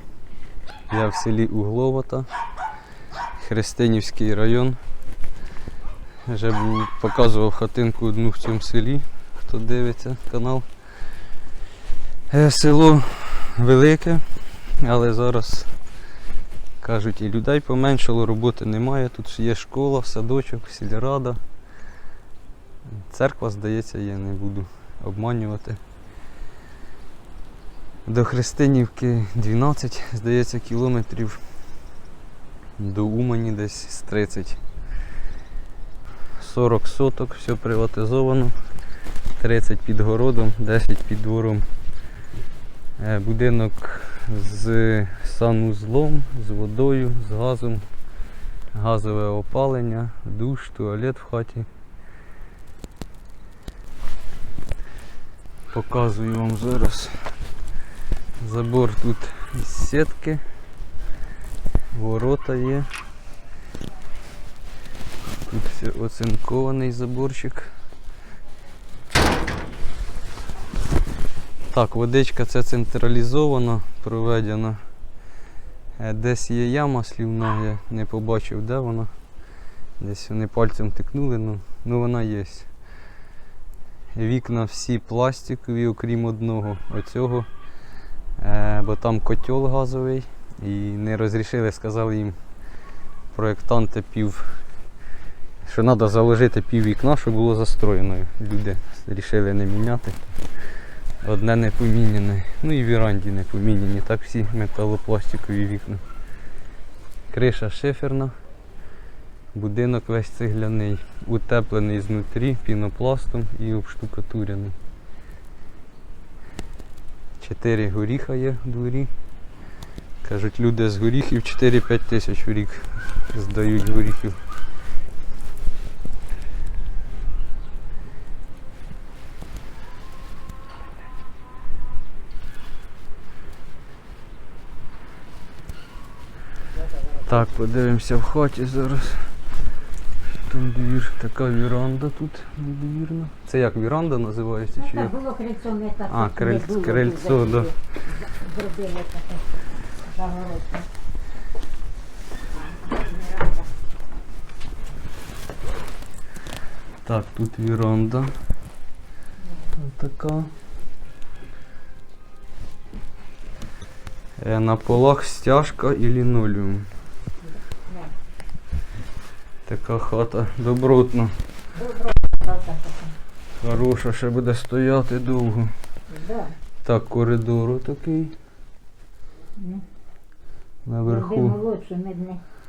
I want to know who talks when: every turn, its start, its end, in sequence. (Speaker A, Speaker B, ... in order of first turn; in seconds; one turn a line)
Speaker A: 0.9-2.3
Speaker A: 3.4-4.8
Speaker A: 6.2-10.7
Speaker A: 12.3-15.8
Speaker A: 16.8-21.4
Speaker A: 22.9-25.8
Speaker A: 28.1-31.5
Speaker A: 32.8-34.6
Speaker A: 36.4-38.6
Speaker A: 39.4-41.7
Speaker A: 43.0-47.9
Speaker A: 48.7-51.7
Speaker A: 55.7-57.4
Speaker A: 58.4-60.4
Speaker A: 61.9-62.9
Speaker A: 65.4-67.7
Speaker A: 71.7-74.8
Speaker A: 76.0-79.1
Speaker A: 80.0-82.7
Speaker A: 84.1-87.5
Speaker A: 88.4-92.4
Speaker A: 93.3-94.6
Speaker A: 95.6-100.3
Speaker A: 101.2-106.0
Speaker A: 107.3-108.4
Speaker A: 109.5-114.8
Speaker A: 117.4-119.1
Speaker A: 120.2-124.4
Speaker A: 137.2-139.4
Speaker A: 140.4-145.1
Speaker B: 144.8-150.9
Speaker A: 146.1-147.7
Speaker B: 152.5-153.7
Speaker A: 157.0-158.3
Speaker A: 159.8-160.5
Speaker A: 164.4-166.9
Speaker B: 167.4-168.1
Speaker A: 169.7-171.4
Speaker B: 171.7-173.1
Speaker A: 173.6-175.7
Speaker B: 176.1-176.6
Speaker A: 176.8-178.3
Speaker B: 179.6-179.8
Speaker A: 180.8-181.6
Speaker B: 181.1-182.4